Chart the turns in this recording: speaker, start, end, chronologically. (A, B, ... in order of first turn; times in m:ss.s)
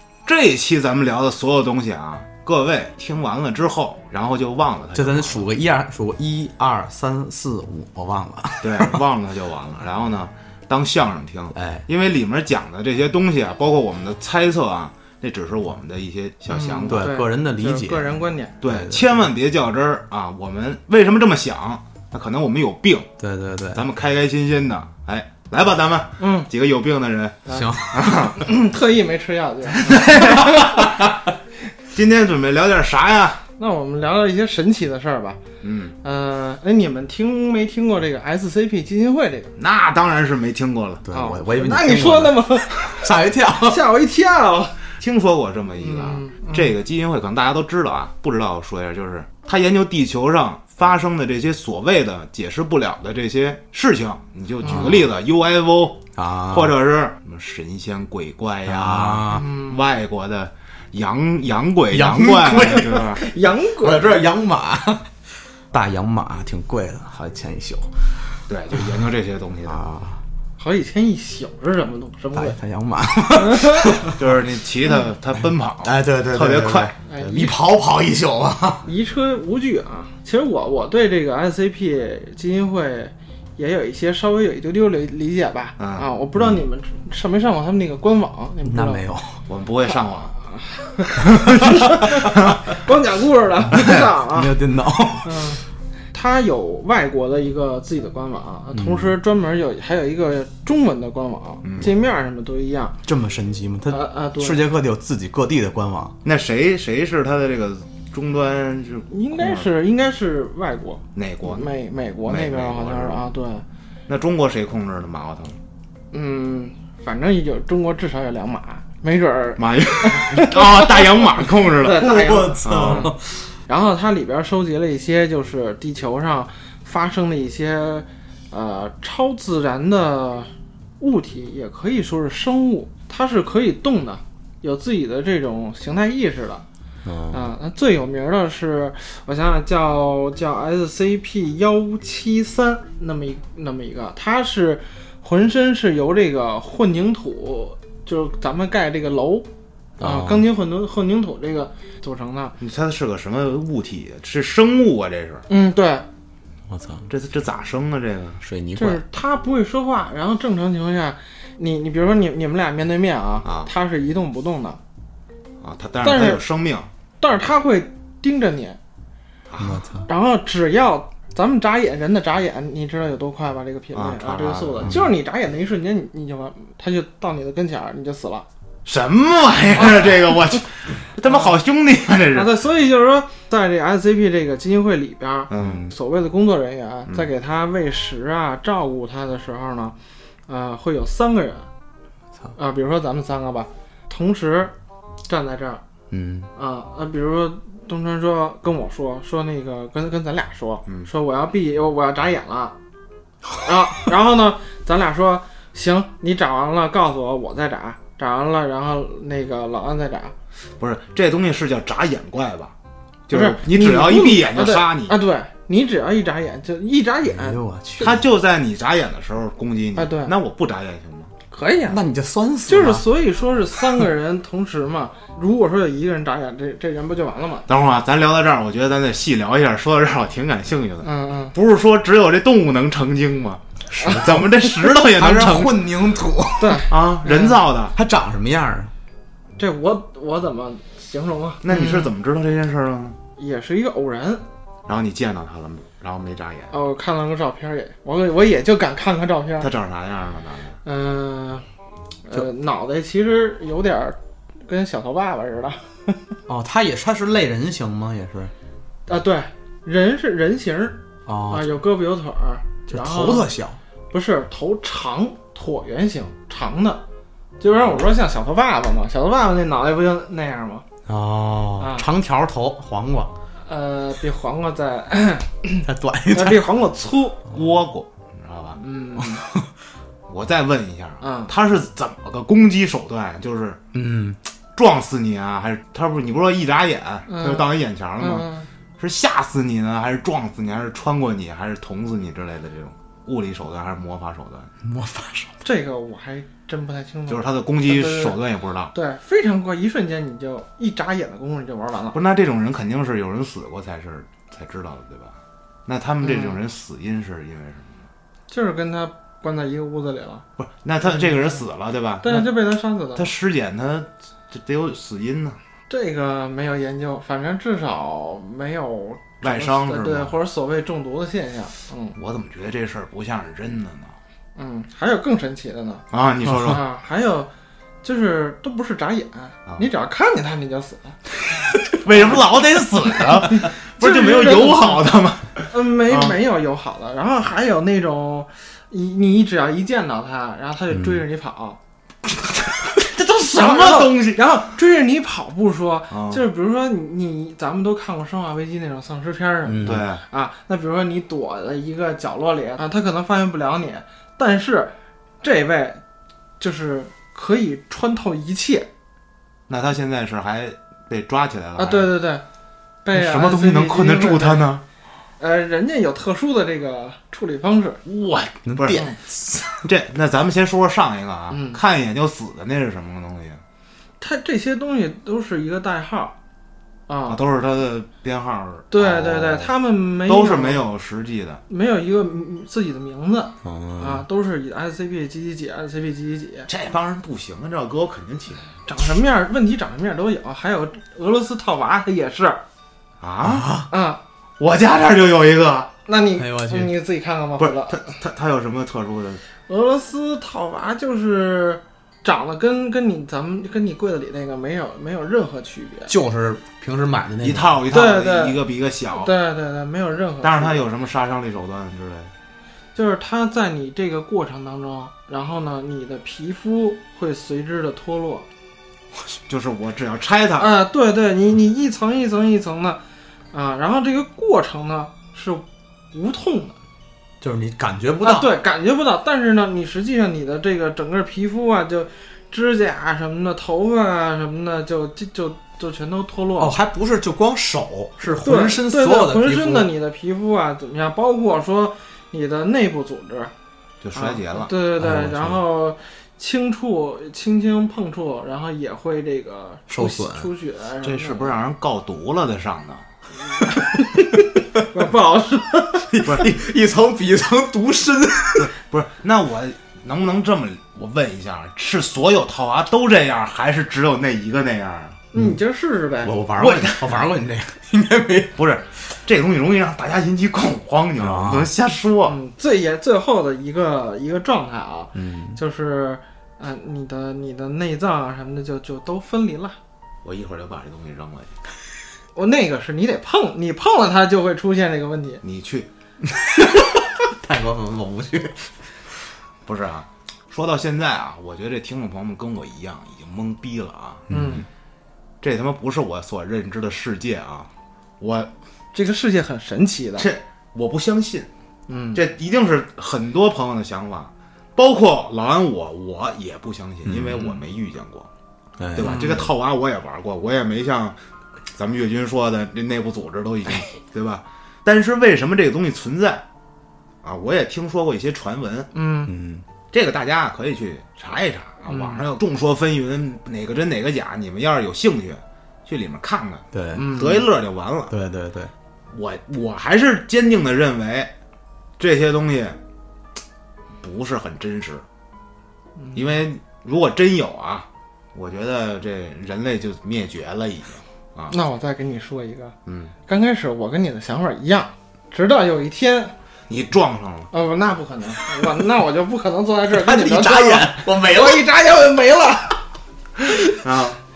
0:00.2-0:05.5 A
0:04.9-0:09.0 B
0:08.6-0:17.2 A
0:11.5-0:11.8 B
0:16.5-0:18.6 C
0:16.9-0:19.1 B
0:18.6-0:23.1 A
0:23.2-0:23.8 B
0:23.7-0:28.4 A
0:26.2-0:26.5 C
0:27.5-0:27.7 C
0:27.5-0:28.1 B
0:28.3-0:30.9 C
0:29.8-0:30.9 A
0:31.9-0:33.4 A
0:33.6-0:35.4 C
0:35.6-0:36.0 A
0:36.0-0:39.5 C
0:39.6-0:41.0 A
0:41.0-0:43.8 B
0:41.1-0:43.0 C
0:43.6-0:44.8 C
0:45.0-1:03.2 A
0:45.8-0:46.7 C
0:54.6-0:54.9 C
0:54.7-0:55.1 B
0:56.2-0:56.8 B
0:58.7-0:59.5 B
0:59.3-0:59.8 C
1:01.9-1:03.1 B
1:02.7-1:04.2 C
1:03.8-1:05.1 B
1:05.7-1:09.0 B
1:08.5-1:09.9 A
1:09.6-1:10.2 B
1:10.6-1:12.6 C
1:12.3-1:14.3 B
1:13.3-1:14.1 C
1:14.2-1:16.9 A
1:15.8-1:18.9 B
1:17.1-1:17.6 C
1:18.9-1:29.0 C
1:25.8-1:26.1 A
1:28.6-1:29.4 B
1:29.5-1:30.4 A
1:30.5-1:34.6 C
1:31.3-1:31.7 A
1:32.3-1:32.6 A
1:33.8-1:34.1 A
1:33.8-1:35.6 B
1:35.2-1:35.6 C
1:36.1-1:43.0 C
1:38.7-1:39.2 B
1:41.6-1:41.9 A
1:43.0-1:46.2 B
1:43.9-1:44.6 C
1:46.2-1:49.7 A
1:49.1-1:53.6 C
1:51.2-1:51.7 A
1:52.2-1:53.2 A
1:54.1-1:55.6 A
1:56.1-2:03.2 C
1:59.6-2:02.1 A
2:01.9-2:03.5 B
2:02.6-2:03.1 A
2:03.7-2:16.6 C
2:17.0-2:17.5 B
2:17.3-2:29.5 C
2:30.0-2:32.6 C
2:30.0-2:30.5 B
2:32.6-2:35.4 A
2:35.5-2:36.1 C
2:36.7-2:37.1 B
2:37.1-2:38.4 A
2:38.4-2:39.0 B
2:38.8-2:44.8 C
2:43.4-2:43.7 A
2:45.6-2:46.9 A
2:46.0-2:46.4 C
2:47.2-2:48.8 C
2:49.5-2:49.9 A
2:49.6-2:50.1 B
2:50.1-2:58.5 C
2:54.0-2:55.0 A
2:58.8-3:02.6 A
2:59.8-3:00.1 C
3:01.3-3:01.5 C
3:02.3-3:10.0 C
3:05.5-3:05.9 A
3:10.5-3:11.7 C
3:12.6-3:14.7 C
3:15.3-3:15.8 C
3:16.1-3:16.5 B
3:16.6-3:22.8 C
3:23.6-3:30.3 C
3:30.8-3:32.8 A
3:33.3-3:35.2 A
3:33.3-3:37.6 C
3:37.3-3:38.2 B
3:38.0-3:41.3 A
3:40.0-3:40.3 C
3:41.5-3:42.0 C
3:41.9-3:43.0 B
3:42.7-3:47.7 C
3:47.7-3:55.9 A
3:51.0-3:51.6 C
3:53.9-3:56.9 B
3:56.6-3:57.6 C
3:56.9-3:58.0 A
3:57.9-3:58.9 B
3:59.6-4:02.1 C
4:01.6-4:03.2 A
4:03.4-4:04.5 C
4:04.9-4:06.7 A
4:06.7-4:09.7 C
4:09.6-4:10.8 A
4:10.8-4:11.7 C
4:12.2-4:16.2 C
4:16.5-4:18.5 B
4:19.1-4:23.5 C
4:21.3-4:21.7 B
4:22.9-4:23.8 B
4:24.1-4:27.0 C
4:27.6-4:30.9 C
4:31.1-4:33.3 B
4:31.8-4:32.1 C
4:33.7-4:37.4 C
4:35.8-4:36.7 B
4:37.5-4:38.8 A
4:38.8-4:39.4 C
4:39.4-4:39.7 B
4:40.3-4:43.8 A
4:41.2-4:41.5 C
4:43.9-4:44.4 B
4:44.8-4:48.5 A
4:47.3-4:47.7 C
4:48.2-4:48.7 C
4:49.0-4:54.7 A
4:54.8-4:55.6 B
4:55.6-4:58.4 C
4:57.3-4:58.9 A
4:58.9-5:02.2 C
5:02.1-5:08.1 A
5:06.2-5:06.6 C
5:08.5-5:10.4 C
5:10.6-5:12.5 A
5:11.0-5:11.6 C
5:12.2-5:13.3 C
5:13.2-5:15.6 A
5:15.9-5:22.2 C
5:19.4-5:20.3 A
5:22.2-5:24.2 A
5:24.6-5:26.0 C
5:26.1-5:26.8 A
5:26.6-5:27.5 C
5:28.0-5:31.2 C
5:31.9-5:36.4 A
5:32.1-5:32.4 C
5:33.4-5:35.1 C
5:35.7-5:41.8 C
5:40.9-5:41.2 B
5:42.4-5:44.5 A
5:43.1-5:56.0 C
5:46.1-5:46.4 A
5:49.7-5:50.1 B
5:49.8-5:50.2 A
5:56.6-5:58.9 C
5:59.7-6:02.1 A
6:01.8-6:02.4 C
6:03.0-6:04.7 C
6:03.1-6:04.8 A
6:05.4-6:08.0 C
6:08.0-6:09.1 A
6:08.7-6:09.8 B
6:08.9-6:09.2 C
6:09.8-6:13.6 A
6:11.5-6:11.8 C
6:14.2-6:16.4 C
6:17.1-6:17.4 C
6:17.3-6:21.6 A
6:18.9-6:20.9 C
6:21.7-6:26.7 C
6:23.6-6:24.2 B
6:26.7-6:28.7 A
6:28.9-6:32.6 C
6:33.2-6:33.7 A
6:33.4-6:33.9 B
6:33.9-6:34.2 C
6:34.6-6:35.9 A
6:36.1-6:38.2 C
6:36.4-6:36.9 B
6:37.6-6:39.4 A
6:39.7-6:46.1 C
6:46.1-6:47.8 B
6:47.4-6:49.3 A
6:47.9-6:48.6 C
6:49.1-6:50.8 C
6:50.4-6:52.3 A
6:53.0-6:58.5 C
6:59.5-7:00.7 A
7:00.6-7:03.0 C
7:03.5-7:06.8 C
7:07.4-7:08.5 B
7:08.2-7:16.7 C
7:16.6-7:19.9 B
7:18.4-7:23.5 C
7:24.0-7:24.7 A
7:24.2-7:31.6 C
7:25.0-7:25.6 B
7:29.9-7:30.5 B
7:31.0-7:33.1 A
7:33.6-7:36.1 C
7:36.1-7:38.7 B
7:38.6-7:45.2 A
7:45.3-7:46.4 C
7:46.2-7:48.6 B
7:46.6-7:47.3 A
7:48.6-7:52.4 A
7:51.2-7:51.7 B
7:52.3-7:59.8 C
7:55.2-7:55.6 B
8:00.2-8:01.6 A
8:02.4-8:05.4 C
8:05.4-8:05.9 A
8:06.2-8:08.8 B
8:09.7-8:14.2 A
8:14.3-8:14.6 B
8:14.3-8:14.6 C
8:15.4-8:18.5 A
8:18.9-8:20.3 C
8:20.2-8:21.5 A
8:21.9-8:22.2 C
8:22.1-8:28.3 A
8:27.0-8:27.6 B
8:28.8-8:29.5 B
8:28.9-8:31.2 A
8:29.0-8:29.4 C
8:31.7-8:36.4 A
8:37.2-8:38.9 A
8:38.9-8:39.3 C
8:39.3-8:39.7 B
8:39.9-8:48.2 A
8:41.9-8:42.2 C
8:46.7-8:47.1 B
8:47.0-8:47.4 C
8:48.1-8:48.7 B
8:49.1-8:51.3 A
8:52.0-8:52.8 A
8:54.0-8:55.1 A
8:56.0-8:56.4 C
8:56.1-9:01.6 A
9:01.5-9:02.8 C
9:02.9-9:03.1 A
9:03.3-9:06.4 C
9:06.7-9:07.5 A
9:07.5-9:12.8 C
9:09.9-9:11.7 B
9:13.8-9:14.2 A